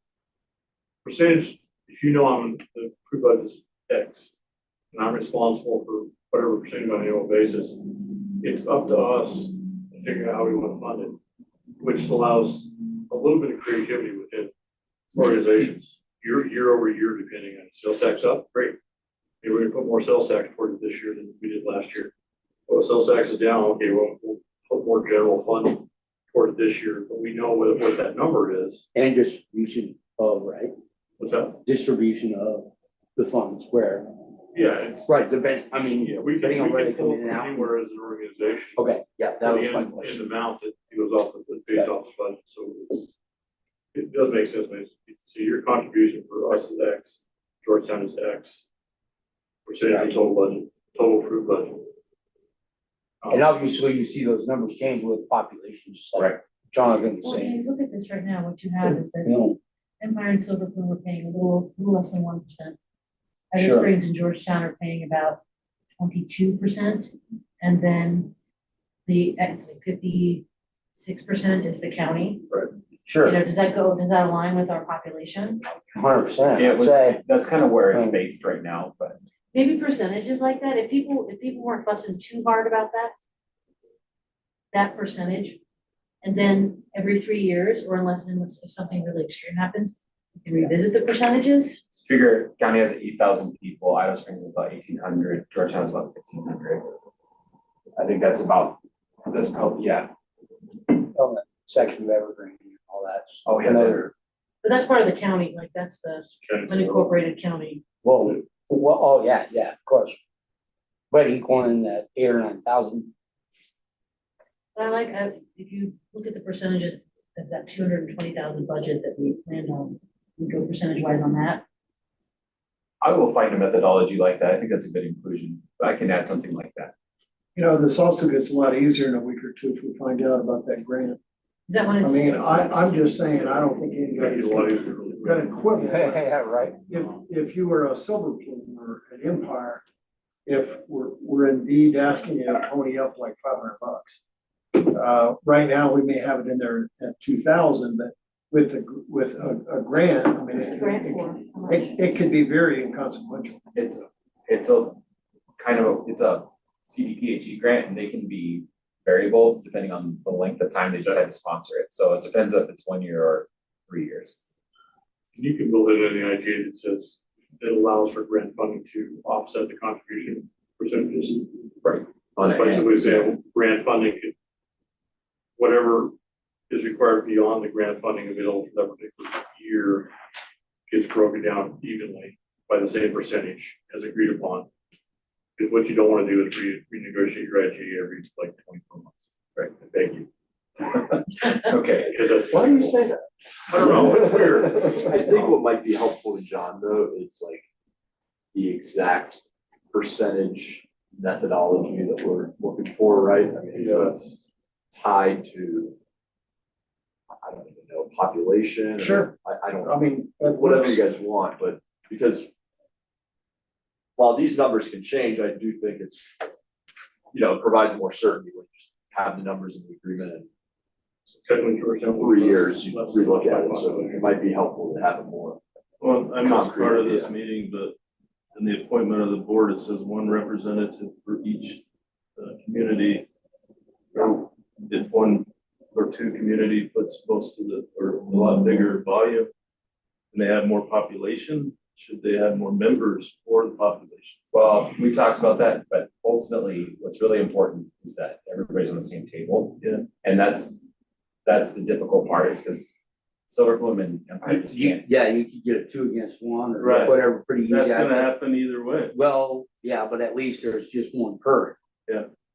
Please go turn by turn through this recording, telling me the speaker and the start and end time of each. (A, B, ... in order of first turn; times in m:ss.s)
0:01.0-0:04.3 A
0:04.9-0:07.8 A
0:08.4-0:11.2 A
0:11.8-0:14.5 A
0:15.1-0:18.8 A
0:19.4-0:22.1 A
0:22.7-0:28.8 A
0:28.9-0:30.7 B
0:31.2-0:31.6 A
0:31.6-0:34.1 B
0:34.5-0:35.1 A
0:35.1-0:37.7 B
0:35.9-0:43.1 A
0:38.8-0:40.2 B
0:43.9-0:48.6 A
0:49.7-0:51.9 A
0:53.2-0:53.5 A
0:53.3-0:57.6 B
0:56.2-0:56.4 C
0:57.1-0:59.4 D
0:58.9-0:59.6 B
1:00.0-1:02.8 D
1:03.5-1:05.4 D
1:03.6-1:03.9 B
1:06.0-1:08.3 D
1:09.1-1:12.5 D
1:13.1-1:13.4 B
1:13.2-1:15.6 D
1:16.0-1:17.2 B
1:16.5-1:19.2 C
1:17.9-1:18.2 B
1:19.5-1:23.1 D
1:24.7-1:25.6 D
1:26.2-1:31.8 D
1:31.9-1:36.9 C
1:38.0-1:40.1 C
1:41.0-1:44.1 B
1:43.5-1:44.1 C
1:44.6-1:47.8 D
1:46.3-1:47.2 A
1:48.0-1:50.2 B
1:51.1-1:53.1 B
1:54.8-2:01.6 D
2:03.0-2:06.9 C
2:07.6-2:11.2 E
2:11.7-2:12.8 D
2:12.0-2:16.3 E
2:13.4-2:15.6 A
2:15.8-2:16.8 B
2:16.9-2:19.8 E
2:20.5-2:24.2 E
2:24.7-2:33.6 E
2:30.5-2:32.0 D
2:33.8-2:35.0 C
2:35.6-2:44.4 C
2:45.4-2:51.5 A
2:51.8-2:52.7 C
2:52.4-2:53.4 F
2:52.5-2:54.3 A
2:55.6-2:56.1 A
2:56.7-3:00.1 A
3:00.9-3:04.7 A
3:05.6-3:09.2 A
3:09.8-3:10.3 A
3:10.8-3:13.0 C
3:12.1-3:13.0 A
3:12.5-3:17.6 F
3:13.7-3:14.6 A
3:13.8-3:14.2 C
3:18.5-3:24.2 F
3:23.7-3:24.4 A
3:24.9-3:26.0 F
3:27.4-3:32.5 F
3:29.0-3:31.0 E
3:34.2-3:36.5 F
3:37.3-3:40.5 F
3:41.3-3:44.4 A
3:42.1-3:45.6 F
3:46.0-3:48.0 G
3:46.4-3:47.3 F
3:48.5-3:51.8 G
3:52.4-3:53.3 G
3:54.1-3:59.5 G
4:00.3-4:04.4 G
4:04.5-4:10.8 C
4:09.8-4:10.1 G
4:11.4-4:13.0 C
4:13.5-4:15.0 C
4:14.4-4:18.3 B
4:16.8-4:19.1 G
4:19.1-4:21.8 B